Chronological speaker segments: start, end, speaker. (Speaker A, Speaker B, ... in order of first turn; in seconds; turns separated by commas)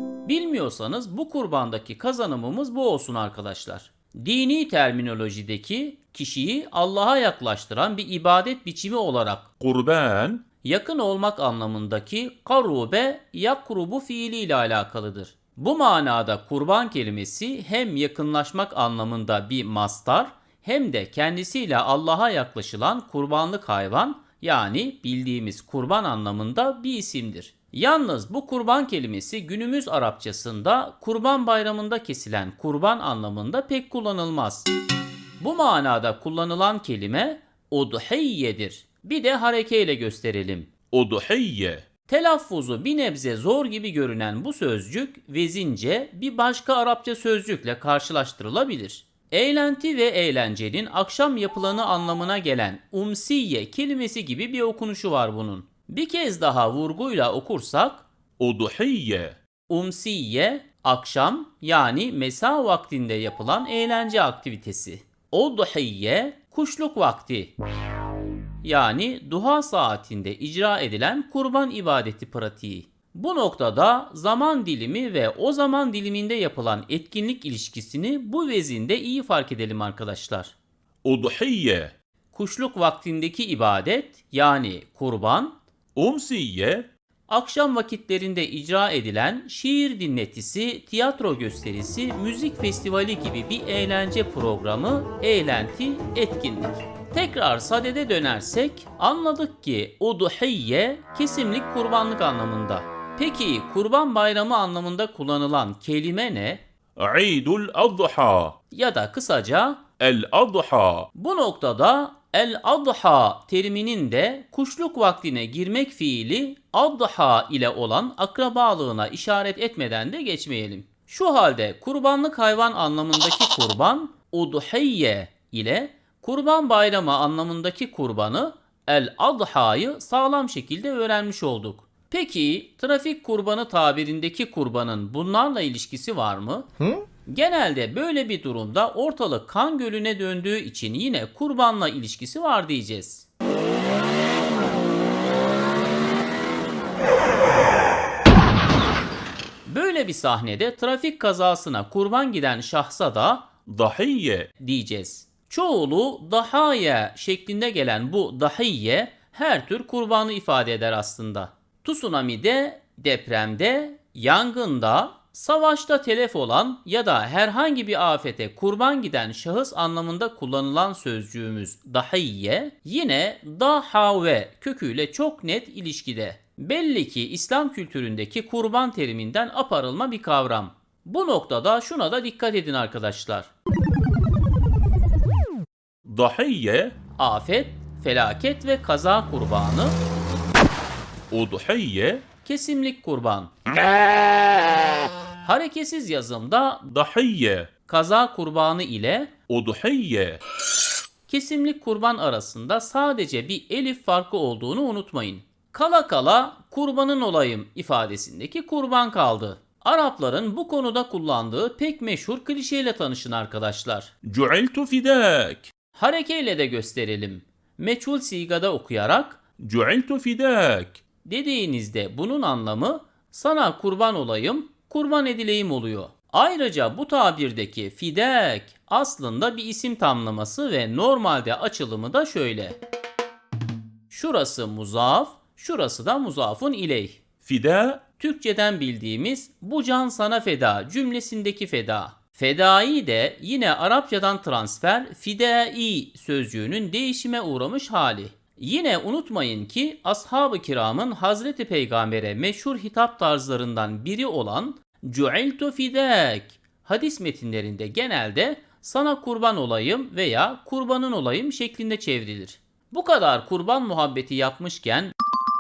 Speaker A: 0.2-9.5, Speaker B: 9.6-10.4, Speaker A: 10.6-34.7, Speaker A: 35.4-40.7, Speaker B: 40.9-41.9, Speaker A: 42.0-58.0, Speaker B: 58.4-59.4, Speaker A: 59.7-67.5, Speaker A: 68.6-80.5, Speaker B: 81.0-81.9, Speaker A: 82.3-85.5, Speaker B: 86.0-86.9, Speaker A: 87.3-106.6, Speaker B: 107.0-108.6, Speaker A: 108.7-109.8, Speaker B: 110.0-111.1, Speaker A: 111.1-136.7, Speaker A: 137.3-143.3, Speaker A: 149.7-153.5, Speaker B: 153.7-154.5, Speaker A: 154.6-183.5, Speaker B: 186.1-186.9, Speaker A: 187.2-190.0, Speaker B: 191.3-192.2, Speaker A: 192.4-193.5, Speaker A: 195.4-196.9, Speaker B: 196.9-197.7, Speaker A: 197.9-199.3, Speaker B: 199.5-200.4, Speaker A: 201.3-214.2, Speaker B: 214.2-215.7, Speaker A: 215.9-219.4, Speaker B: 219.6-221.0, Speaker A: 221.2-232.8, Speaker A: 234.1-237.4, Speaker B: 237.4-238.0, Speaker A: 238.1-265.1